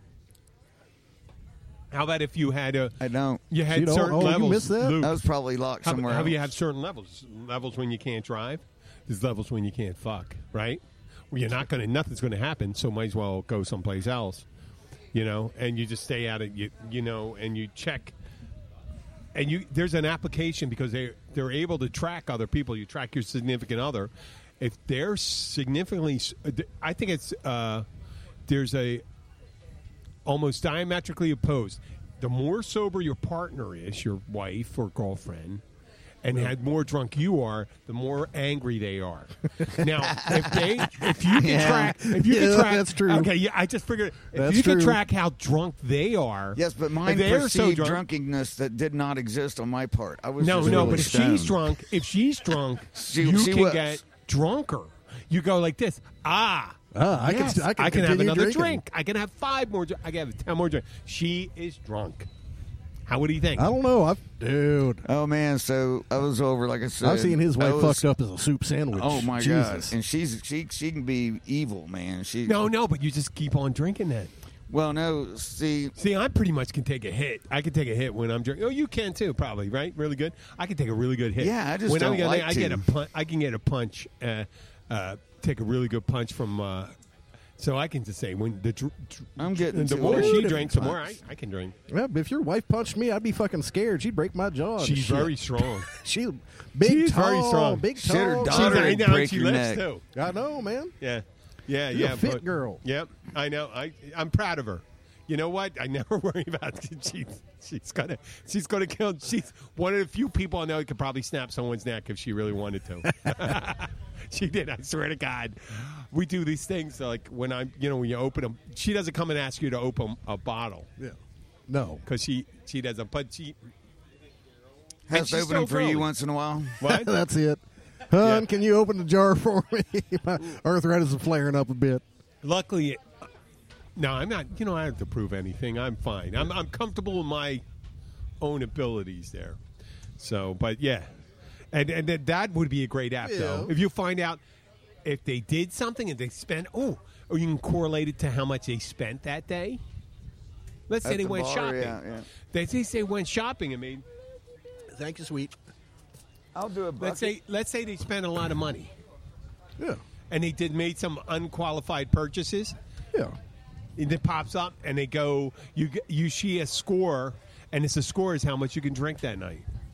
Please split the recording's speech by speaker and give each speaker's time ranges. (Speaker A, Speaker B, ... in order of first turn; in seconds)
Speaker A: 1.9-3.0, 3.5-5.2, 5.8-14.4, 15.1-18.1, 19.3-27.9, 28.4-29.0, 30.2-35.6, 36.2-48.0, 50.4-62.3, 63.1-63.7, 72.4-74.3, 76.0-86.9, 87.6-91.7, 94.8-95.9, 96.8-97.9, 98.4-100.0, 101.0-120.9, 122.0-123.6, 125.1-126.1, 126.8-127.1, 128.2-128.5, 132.4-133.1, 133.9-137.6, 138.4-139.6, 140.2-141.1, 141.7-144.4, 145.0-149.8, 150.9-152.0, 152.5-154.0, 157.0-158.9, 160.3-162.8, 163.9-169.7
Speaker B: 3.0-3.4, 5.0-6.4, 40.1-40.4, 41.4-42.0, 46.5-51.6, 52.9-54.0, 65.0-68.0, 68.9-72.7, 74.7-75.9, 81.4-82.8, 89.4-91.0, 98.0-99.8, 125.1-126.8, 151.0-152.3, 156.5-157.3
Speaker C: 3.7-5.0, 41.2-43.3, 44.3-45.0, 50.6-51.1, 56.9-58.8, 63.6-65.0, 67.0-69.9, 90.0-90.7, 91.9-99.0, 100.1-100.9, 101.9-102.8, 121.7-122.0, 126.8-132.0, 143.2-143.7, 154.9-155.5